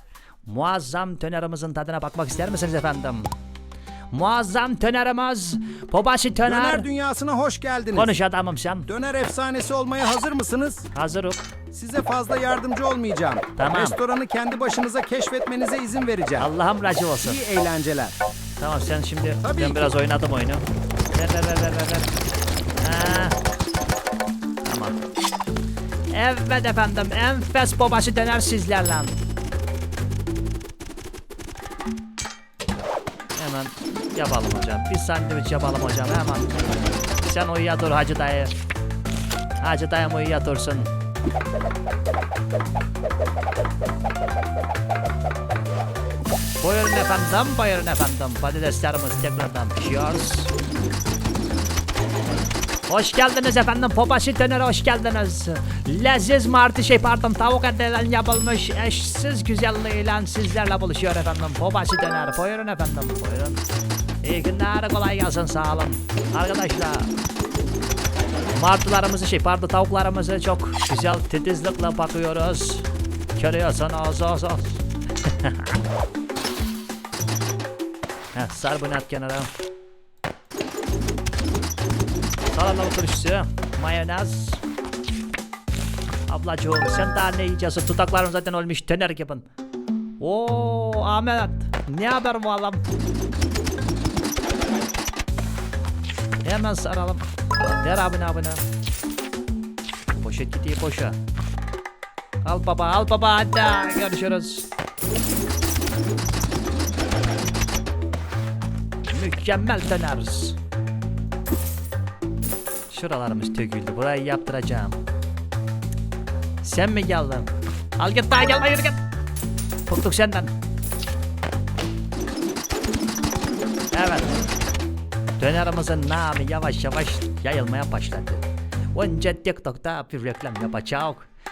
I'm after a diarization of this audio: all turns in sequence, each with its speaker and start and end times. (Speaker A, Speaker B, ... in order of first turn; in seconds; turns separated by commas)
Speaker A: 0.5-3.3, Speaker A: 4.1-6.9, Speaker B: 6.5-8.1, Speaker A: 8.0-8.9, Speaker B: 8.9-10.9, Speaker A: 10.9-11.5, Speaker B: 11.7-16.5, Speaker A: 13.6-14.0, Speaker A: 16.4-17.4, Speaker B: 17.2-18.2, Speaker A: 18.6-22.1, Speaker B: 19.4-19.8, Speaker A: 22.8-23.4, Speaker A: 24.6-25.0, Speaker A: 26.1-29.2, Speaker A: 33.3-36.5, Speaker A: 37.2-38.5, Speaker A: 39.6-40.9, Speaker A: 46.6-50.5, Speaker A: 52.9-63.6, Speaker A: 64.2-67.1, Speaker A: 68.5-75.8, Speaker A: 78.3-79.5, Speaker A: 82.5-84.6, Speaker A: 86.3-89.5, Speaker A: 90.2-92.8, Speaker A: 96.4-98.6, Speaker A: 100.2-101.2, Speaker A: 102.4-104.7, Speaker A: 109.0-110.6, Speaker A: 112.9-115.0, Speaker A: 116.6-119.0, Speaker A: 119.9-120.5, Speaker A: 123.9-124.4, Speaker A: 125.4-131.3